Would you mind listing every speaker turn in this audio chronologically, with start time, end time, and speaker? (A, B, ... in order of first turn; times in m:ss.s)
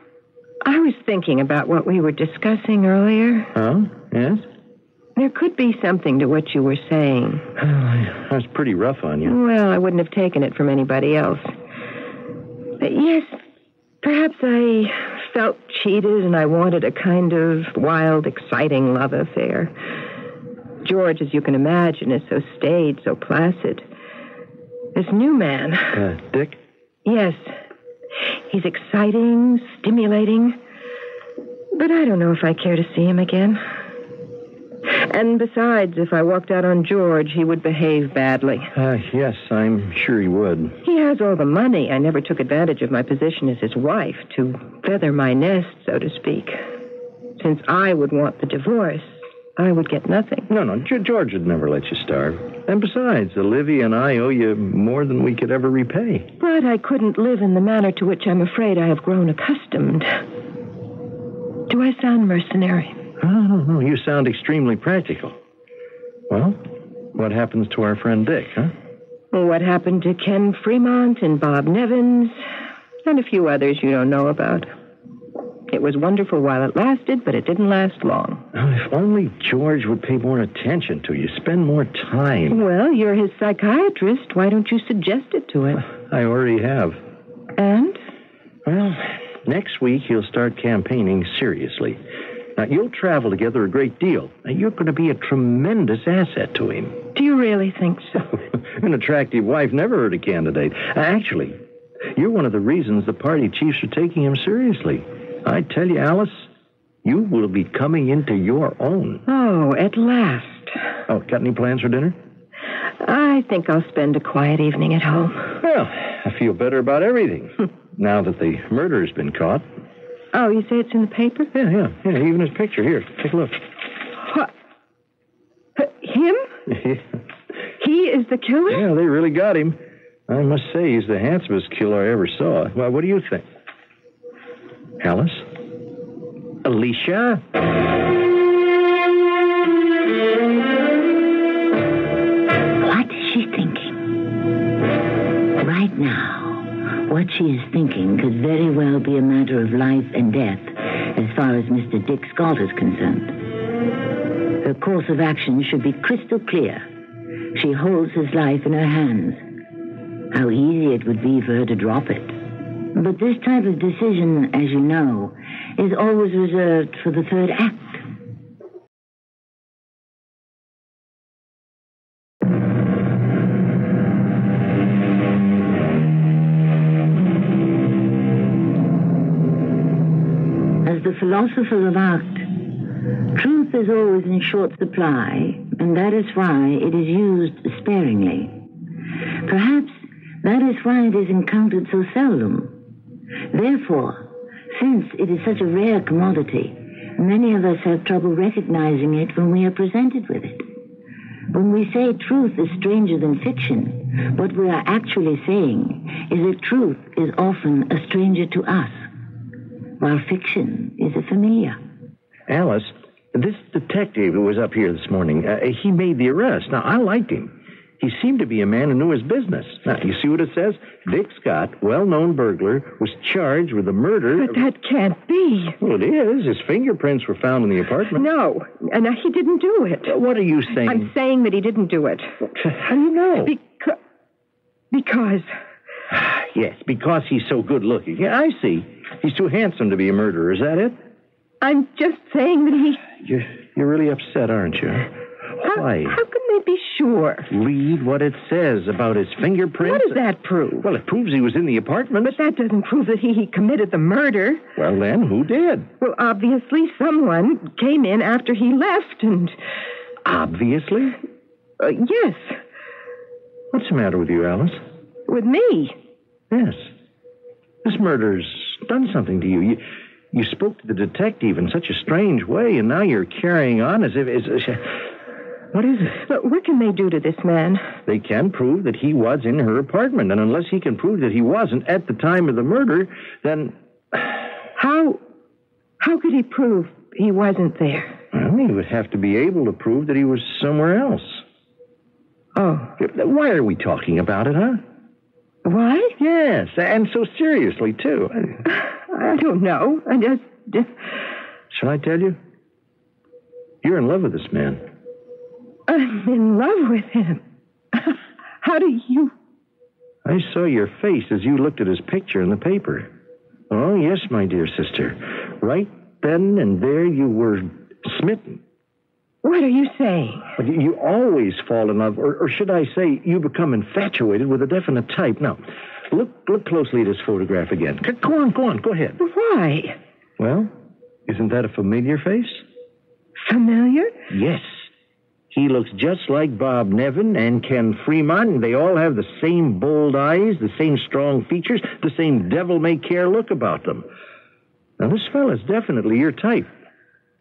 0:00.6-0:03.5 A
0:03.6-0:04.4 B
0:05.2-0:07.4 A
0:07.6-0:09.4 B
0:09.2-0:11.5 A
0:12.8-0:13.4 A
0:14.0-0:19.7 A
0:20.8-0:23.8 A
0:25.0-0:26.0 A
0:25.9-0:26.6 B
0:27.0-0:27.5 A
0:28.5-0:30.6 A
0:31.7-0:33.6 A
0:34.9-0:38.7 A
0:38.7-0:40.8 B
0:40.8-0:46.6 A
0:47.4-0:50.5 A
0:50.5-0:56.3 B
0:56.4-1:00.2 A
1:01.7-1:03.0 A
1:03.2-1:05.4 B
1:06.3-1:06.6 B
1:07.1-1:08.7 B
1:09.3-1:12.5 A
1:13.0-1:14.7 A
1:15.7-1:18.4 A
1:18.5-1:22.6 B
1:22.5-1:25.9 A
1:26.0-1:27.0 B
1:27.6-1:28.0 A
1:28.6-1:32.0 B
1:32.6-1:37.0 B
1:37.1-1:38.3 A
1:38.6-1:41.6 B
1:42.1-1:46.5 B
1:47.0-1:49.2 B
1:49.3-1:50.8 A
1:51.1-1:52.2 B
1:53.0-1:55.6 A
1:55.6-1:59.6 B
2:00.3-2:01.5 A
2:01.5-2:03.6 B
2:04.2-2:04.5 A
2:05.8-2:06.5 A
2:06.7-2:07.0 B
2:07.8-2:08.9 A
2:08.7-2:13.4 B
2:15.0-2:15.5 B
2:16.6-2:17.4 B
2:22.8-2:24.3 C
2:25.6-2:33.4 C
2:34.6-2:36.9 C
2:37.5-2:39.4 C
2:40.3-2:48.0 C
3:00.8-3:02.6 C
3:03.3-3:08.7 C
3:09.4-3:12.8 C
3:13.5-3:20.7 C
3:21.5-3:29.1 C
3:30.0-3:31.8 C
3:32.5-3:44.6 B
3:44.4-3:45.8 A
3:45.8-3:48.2 B
3:48.2-3:50.2 A
3:50.1-3:51.1 B
3:50.8-3:52.4 A
3:52.6-3:53.5 B
3:53.4-3:54.0 A
3:54.9-3:55.5 A
3:56.1-4:01.0 B
4:01.6-4:03.1 A
4:03.2-4:05.1 B
4:05.6-4:06.2 B
4:05.6-4:07.5 A
4:07.5-4:10.2 B
4:09.8-4:10.9 A
4:10.8-4:12.4 B
4:12.2-4:14.6 A
4:14.8-4:15.9 B
4:16.0-4:19.6 A
4:20.2-4:21.2 B
4:21.8-4:22.6 A
4:23.7-4:24.8 B
4:25.3-4:26.0 A
4:26.5-4:26.9 B
4:27.8-4:35.0 B
4:35.7-4:36.2 B
4:36.2-4:37.8 A
4:38.1-4:43.7 B
4:44.8-4:45.2 A
4:46.0-4:48.2 A
4:48.3-4:51.4 B
4:52.6-4:53.0 A
4:53.0-4:54.8 B
4:55.6-4:56.2 A
4:56.2-4:58.6 B
4:58.7-5:01.1 A
5:01.7-5:02.4 B
5:03.8-5:04.8 B
5:05.9-5:07.4 A
5:07.9-5:09.3 A
5:10.2-5:13.1 B
5:13.7-5:18.6 B
5:19.4-5:20.5 A
5:20.6-5:29.2 B
5:29.2-5:30.0 A
5:30.4-5:30.7 B
5:31.3-5:32.6 B
5:33.4-5:34.2 A
5:34.3-5:34.9 B
5:35.5-5:44.1 B
5:45.0-5:46.7 B